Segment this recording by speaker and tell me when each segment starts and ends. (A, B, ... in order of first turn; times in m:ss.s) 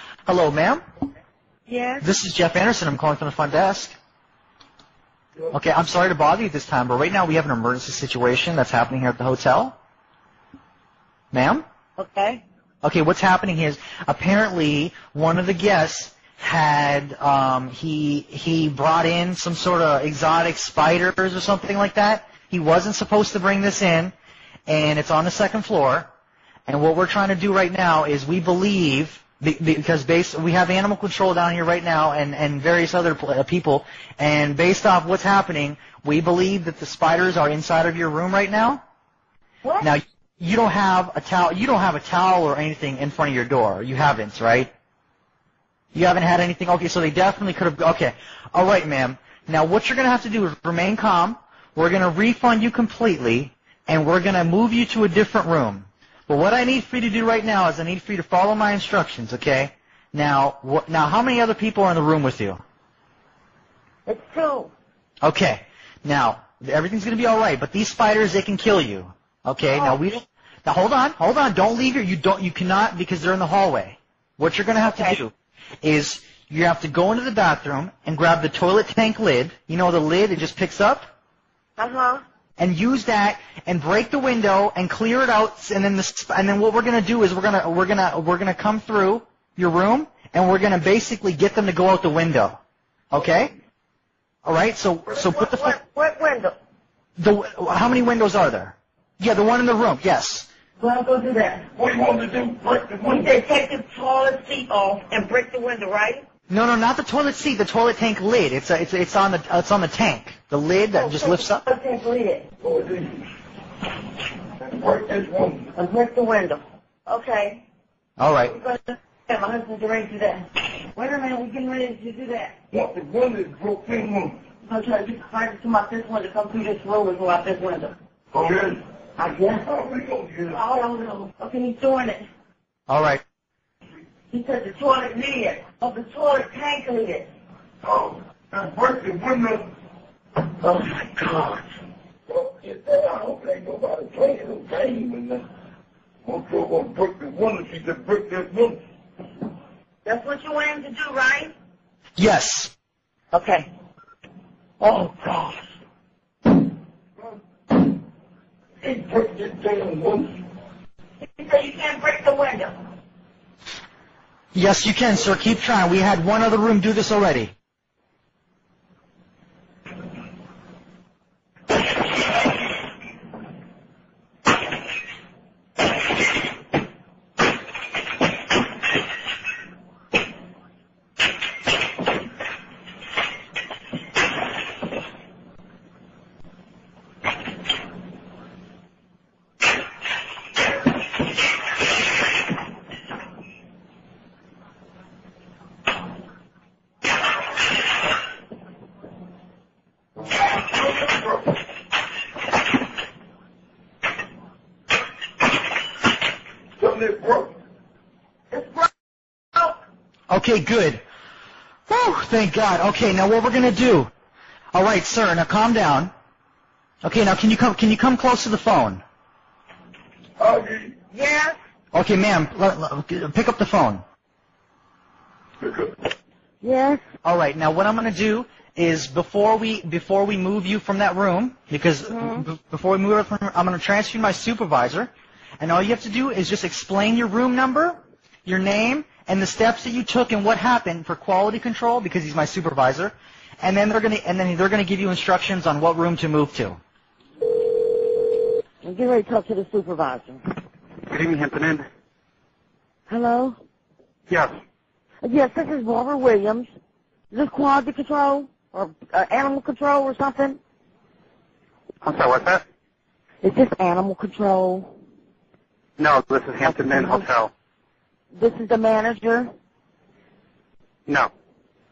0:00.3-0:00.8 A
0:01.7-0:02.0 B
0:02.0-0:03.9 A
0:05.5-0:09.8 A
0:11.3-0:11.6 A
0:12.0-0:12.4 B
0:12.8-0:24.1 A
0:24.7-0:26.1 A
0:26.7-0:38.8 A
0:39.8-0:44.7 A
0:45.9-1:02.6 A
1:04.0-1:04.7 B
1:05.2-1:21.0 A
1:09.7-1:10.0 B
1:14.8-1:15.2 B
1:21.8-1:22.2 B
1:22.6-1:32.6 A
1:33.1-1:33.5 A
1:34.4-1:35.8 A
1:35.1-1:36.5 B
1:37.2-1:40.5 A
1:40.8-1:41.6 B
1:41.7-1:43.3 C
1:43.1-1:46.2 B
1:46.5-1:51.6 A
1:50.9-1:52.4 B
1:52.6-1:53.3 C
1:54.6-1:55.7 C
1:55.7-1:57.6 B
1:58.2-1:58.5 A
1:58.5-2:02.5 B
2:02.7-2:04.4 C
2:04.7-2:07.9 B
2:08.3-2:08.8 C
2:09.2-2:09.7 B
2:09.6-2:10.6 C
2:10.5-2:12.2 B
2:12.9-2:13.2 A
2:14.3-2:17.3 B
2:17.8-2:19.6 C
2:20.6-2:21.6 B
2:22.3-2:25.4 C
2:26.2-2:28.8 C
2:30.0-2:31.5 B
2:32.2-2:32.7 A
2:33.3-2:33.7 B
2:34.8-2:35.6 B
2:38.8-2:40.4 C
2:41.3-2:42.8 B
2:44.5-2:47.5 A
3:20.9-3:21.2 C
3:26.8-3:27.5 C
3:28.5-3:28.9 B
3:30.3-3:31.0 A
3:31.9-3:34.1 A
3:34.7-3:36.1 A
3:37.0-3:39.0 A
3:40.4-3:40.9 C
3:41.1-3:41.6 B
3:41.9-3:44.0 A
3:45.6-3:45.9 C
3:46.6-3:47.0 B
3:47.2-4:06.8 A
3:52.1-3:52.4 B
4:08.8-4:10.4 B
4:11.1-4:11.8 D
4:13.1-4:13.6 B
4:15.2-4:16.7 B
4:17.3-4:20.6 B
4:22.0-4:22.6 D
4:23.4-4:24.9 B
4:26.0-4:27.5 D
4:26.6-4:27.2 B
4:28.3-4:29.5 B